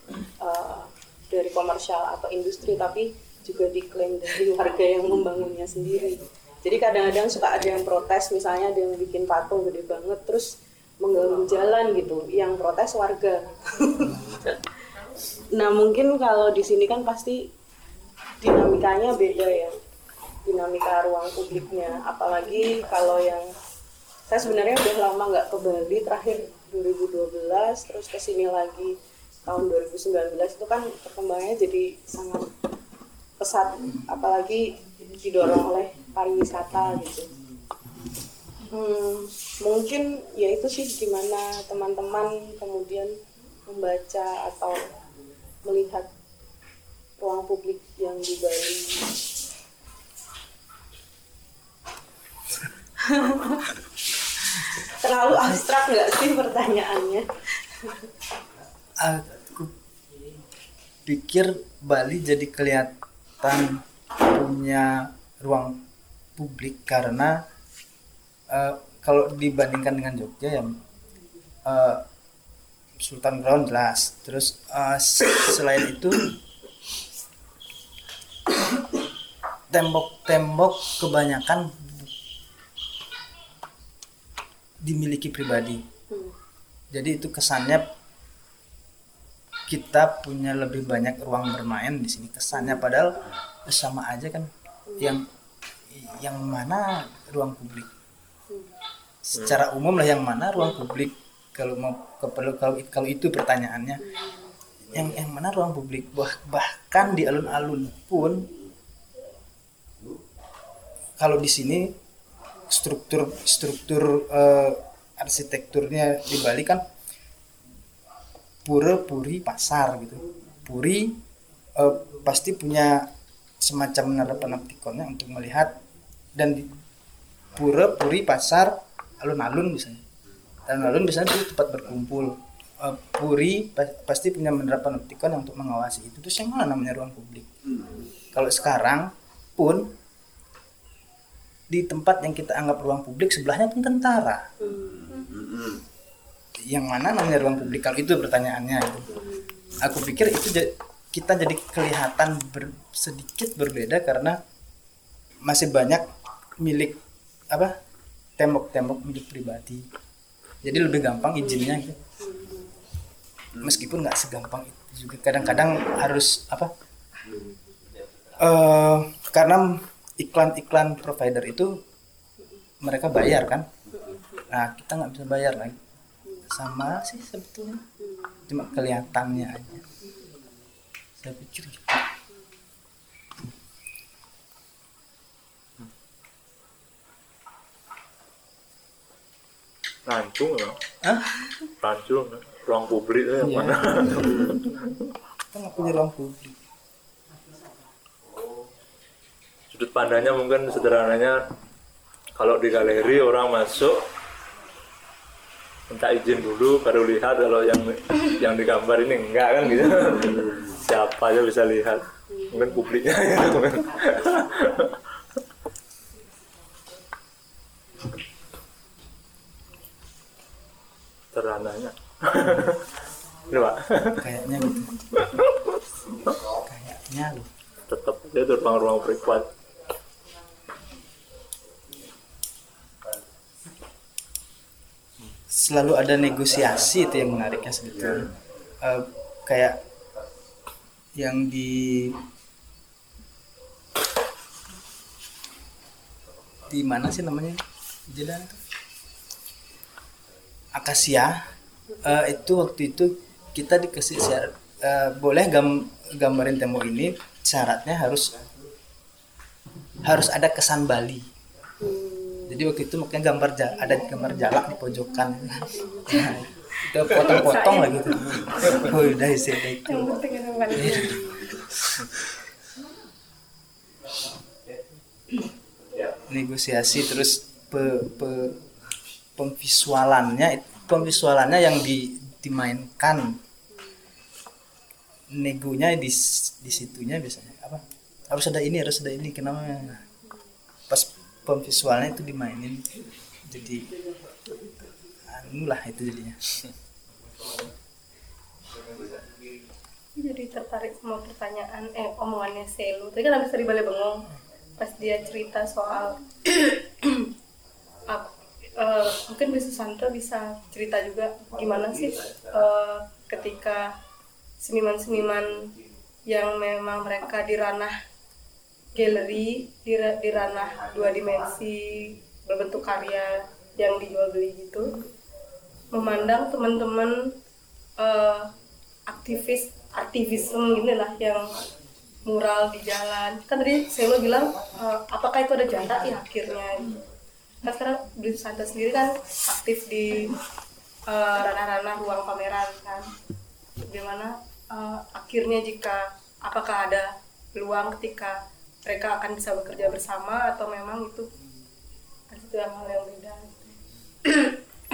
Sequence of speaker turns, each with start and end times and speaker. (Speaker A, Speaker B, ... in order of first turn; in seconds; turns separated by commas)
Speaker A: 0.4-14.6, Speaker A: 15.6-17.5, Speaker A: 18.4-19.8, Speaker A: 20.4-23.5, Speaker A: 24.3-28.9, Speaker A: 29.4-32.5, Speaker A: 33.4-37.3, Speaker A: 38.7-43.2, Speaker A: 43.7-44.9, Speaker A: 45.6-46.1, Speaker A: 47.2-49.1, Speaker A: 53.0-53.7, Speaker A: 55.0-57.2, Speaker B: 55.3-55.6, Speaker B: 59.0-59.7, Speaker B: 61.0-65.8, Speaker B: 66.4-67.4, Speaker B: 68.5-70.7, Speaker B: 71.7-72.0, Speaker B: 73.0-76.3, Speaker B: 79.7-82.1, Speaker B: 84.8-85.8, Speaker B: 86.9-87.9, Speaker B: 89.7-95.2, Speaker A: 94.9-95.2, Speaker B: 95.9-97.9, Speaker B: 99.3-104.0, Speaker C: 99.4-99.6, Speaker A: 104.0-104.5, Speaker B: 104.9-108.5, Speaker B: 111.2-112.0, Speaker B: 112.7-116.8, Speaker B: 118.7-121.2, Speaker B: 121.8-123.1, Speaker B: 123.6-125.7, Speaker B: 126.4-126.7, Speaker B: 127.5-130.0, Speaker B: 130.7-137.5, Speaker B: 138.3-139.9, Speaker B: 141.7-144.5, Speaker A: 144.6-145.3, Speaker B: 146.7-149.1, Speaker A: 149.1-149.8, Speaker B: 149.8-154.4, Speaker B: 155.5-157.0, Speaker B: 158.4-159.9, Speaker B: 160.6-162.0, Speaker A: 160.8-162.7, Speaker B: 163.6-166.7, Speaker B: 168.4-171.8, Speaker B: 172.8-173.7, Speaker A: 173.9-174.4, Speaker B: 174.5-175.8, Speaker B: 176.5-177.8, Speaker A: 178.0-178.4, Speaker B: 178.5-179.8, Speaker B: 181.2-182.0, Speaker C: 190.1-190.8, Speaker B: 191.0-191.3, Speaker C: 191.8-195.1, Speaker B: 193.4-194.5, Speaker B: 195.5-196.6, Speaker C: 199.7-201.4, Speaker C: 202.4-204.0, Speaker C: 205.9-215.0, Speaker C: 221.3-222.8, Speaker C: 223.5-224.3, Speaker B: 224.2-224.9, Speaker C: 225.2-225.5, Speaker B: 226.6-227.5, Speaker C: 227.9-229.5, Speaker B: 235.5-239.8, Speaker B: 241.2-242.2, Speaker B: 246.7-248.6, Speaker B: 250.8-251.4, Speaker B: 252.0-258.4, Speaker B: 260.0-261.3, Speaker A: 261.8-262.7, Speaker B: 262.5-270.2, Speaker A: 265.8-266.2, Speaker D: 267.1-268.8, Speaker D: 269.9-271.2, Speaker B: 270.8-271.1, Speaker B: 276.3-278.6, Speaker B: 279.4-283.3, Speaker A: 283.7-284.0, Speaker B: 285.4-290.0, Speaker B: 290.9-292.9, Speaker B: 293.5-293.9, Speaker B: 295.3-296.6, Speaker D: 300.2-304.2, Speaker D: 304.8-307.3, Speaker D: 308.1-313.8, Speaker D: 314.6-315.7, Speaker D: 316.3-317.9, Speaker D: 319.0-325.0, Speaker D: 325.9-327.2, Speaker D: 328.0-328.5, Speaker D: 329.1-331.4, Speaker D: 332.3-336.9, Speaker D: 337.6-340.3, Speaker D: 341.1-343.1, Speaker D: 343.8-351.3, Speaker D: 352.3-353.6